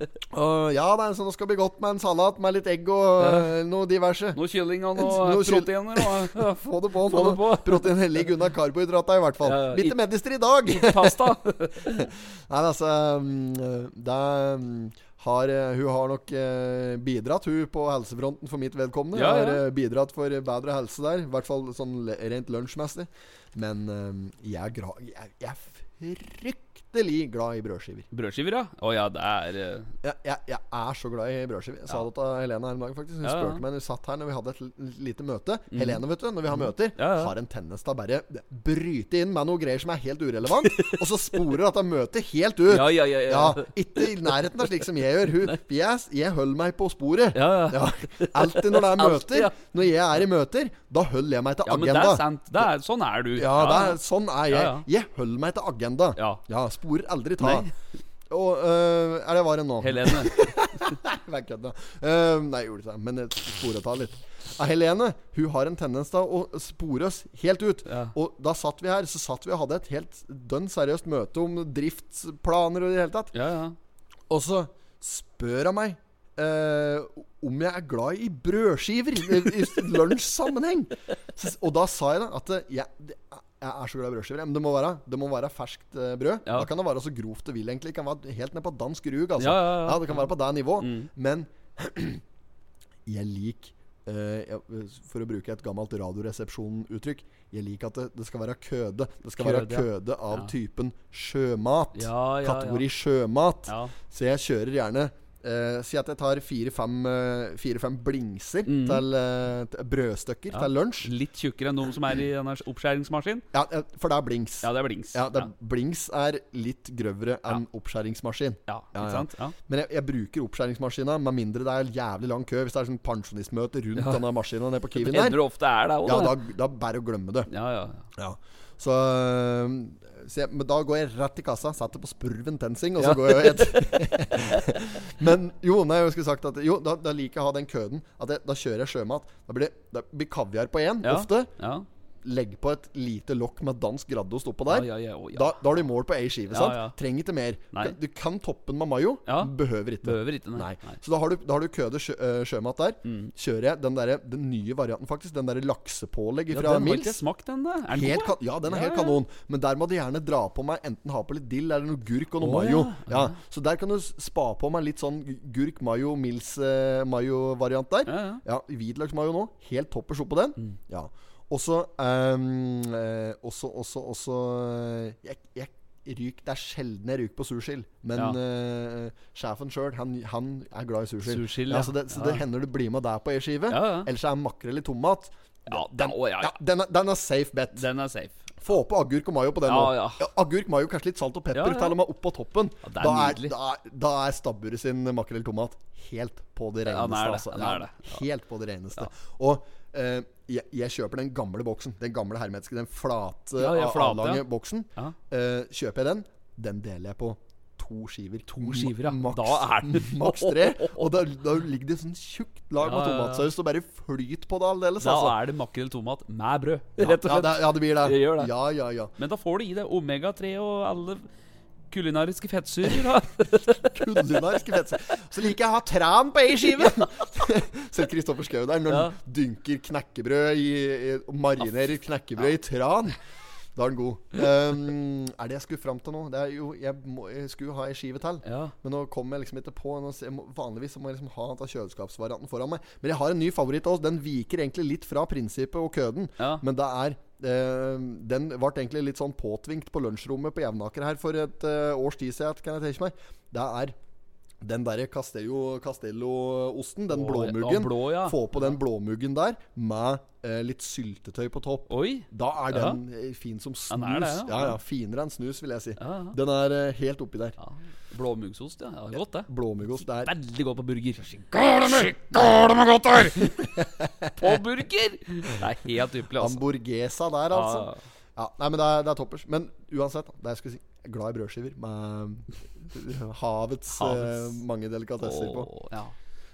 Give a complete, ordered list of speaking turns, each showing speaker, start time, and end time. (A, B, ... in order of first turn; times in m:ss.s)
0:00.3-0:04.4 A
0:03.2-0:03.5 B
0:04.3-0:07.9 B
0:05.0-0:11.3 A
0:09.4-0:10.0 B
0:10.7-0:12.1 B
0:11.8-0:28.1 A
0:19.1-0:19.6 B
0:28.1-0:29.9 B
0:30.0-0:52.2 A
0:33.2-0:33.6 B
0:35.7-0:37.3 B
0:40.6-0:41.0 B
0:42.7-0:44.3 B
0:47.3-0:49.6 B
0:51.6-0:54.9 B
0:53.4-0:57.7 A
0:56.2-0:56.4 B
0:57.4-0:57.7 B
0:58.3-1:13.3 A
0:59.8-1:00.5 B
1:07.8-1:08.1 B
1:13.3-1:13.8 B
1:14.3-1:32.2 A
1:29.4-1:30.3 B
1:30.8-1:31.1 B
1:33.0-1:51.1 A
1:39.4-1:40.5 B
1:41.9-1:42.9 B
1:43.7-1:43.9 B
1:48.6-1:49.0 B
1:50.5-1:53.4 B
1:53.5-2:05.4 A
1:54.6-1:55.5 B
1:58.7-1:59.5 B
2:04.0-2:04.2 B
2:04.9-2:06.4 B
2:06.0-2:07.5 A
2:07.5-2:08.0 B
2:08.2-2:21.5 A
2:13.0-2:14.6 B
2:21.0-2:21.8 B
2:22.2-2:37.2 A
2:24.7-2:25.5 B
2:26.5-2:27.0 B
2:29.2-2:31.0 B
2:33.0-2:33.3 B
2:36.5-2:39.2 B
2:37.9-3:07.8 A
2:42.4-2:43.3 B
2:48.1-2:48.4 B
3:01.2-3:02.4 B
3:03.7-3:04.1 B
3:05.7-3:06.5 B
3:07.7-3:08.6 B
3:08.6-3:35.4 A
3:09.6-3:10.3 B
3:11.5-3:12.0 B
3:12.8-3:13.5 B
3:16.8-3:18.2 B
3:23.6-3:24.4 B
3:28.5-3:31.1 B
3:32.8-3:33.4 B
3:35.0-3:38.5 B
3:37.0-3:39.1 A
3:39.2-3:41.2 B
3:41.9-3:44.0 B
3:43.8-3:53.2 A
3:48.9-3:49.2 B
3:53.8-4:14.0 A
3:58.4-3:58.7 B
4:14.6-4:27.6 A
4:17.1-4:18.8 B
4:21.9-4:23.0 B
4:23.9-4:24.8 B
4:26.0-4:26.4 B
4:27.6-4:29.5 B
4:29.4-4:30.3 A
4:30.0-4:33.5 B
4:31.5-4:34.6 A
4:34.4-4:36.6 B
4:36.4-4:45.7 A
4:37.5-4:38.0 B
4:43.9-4:44.6 B
4:45.2-4:46.1 B